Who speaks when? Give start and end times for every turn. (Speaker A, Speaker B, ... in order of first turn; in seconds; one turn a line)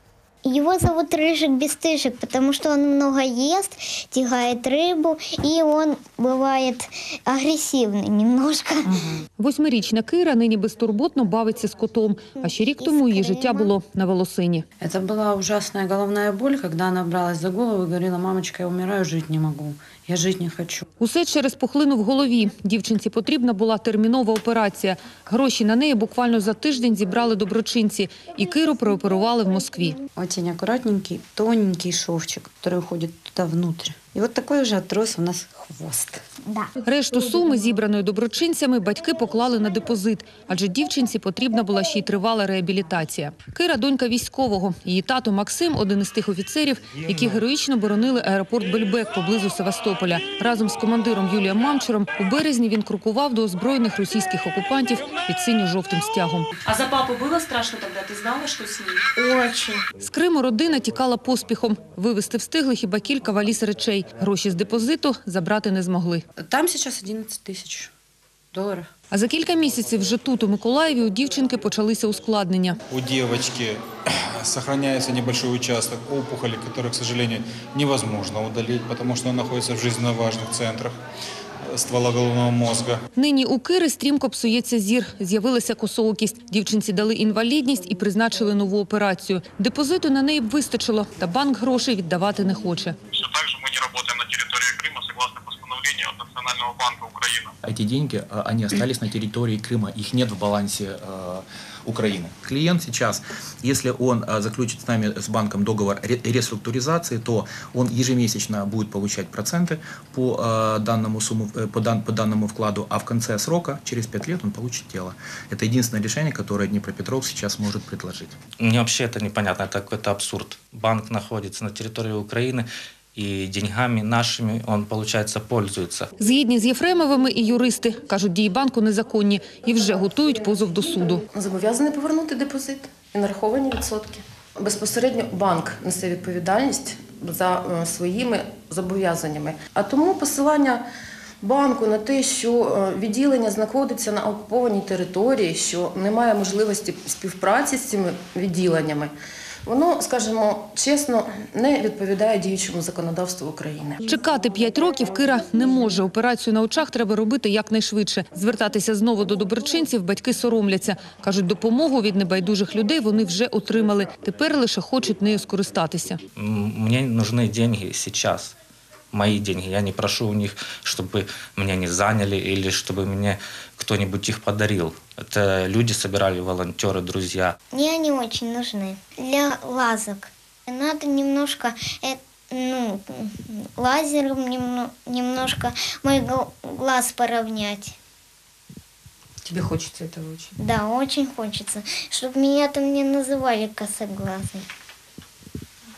Speaker A: 0.4-9.2
Speaker B: 9.4-14.7
Speaker A: 12.4-13.7
Speaker C: 14.8-20.8
Speaker B: 21.0-29.9
Speaker C: 30.2-36.2
Speaker B: 36.8-56.5
Speaker D: 56.6-59.8
Speaker B: 60.0-66.2
Speaker C: 66.4-67.9
Speaker C: 68.5-68.9
Speaker B: 69.1-72.8
Speaker E: 72.9-73.8
Speaker E: 74.4-80.9
Speaker E: 81.7-83.0
Speaker B: 83.2-92.9
Speaker F: 93.1-97.5
Speaker G: 97.6-118.4
Speaker H: 118.6-126.1
Speaker B: 126.2-131.2
Speaker I: 131.3-140.8
Speaker I: 141.4-149.1
Speaker I: 149.7-154.0
Speaker B: 154.0-166.2
Speaker H: 166.4-168.6
Speaker H: 169.1-177.6
Speaker A: 177.7-187.9
Speaker C: 189.4-190.2
Speaker D: 189.6-190.5
Speaker A: 190.6-194.7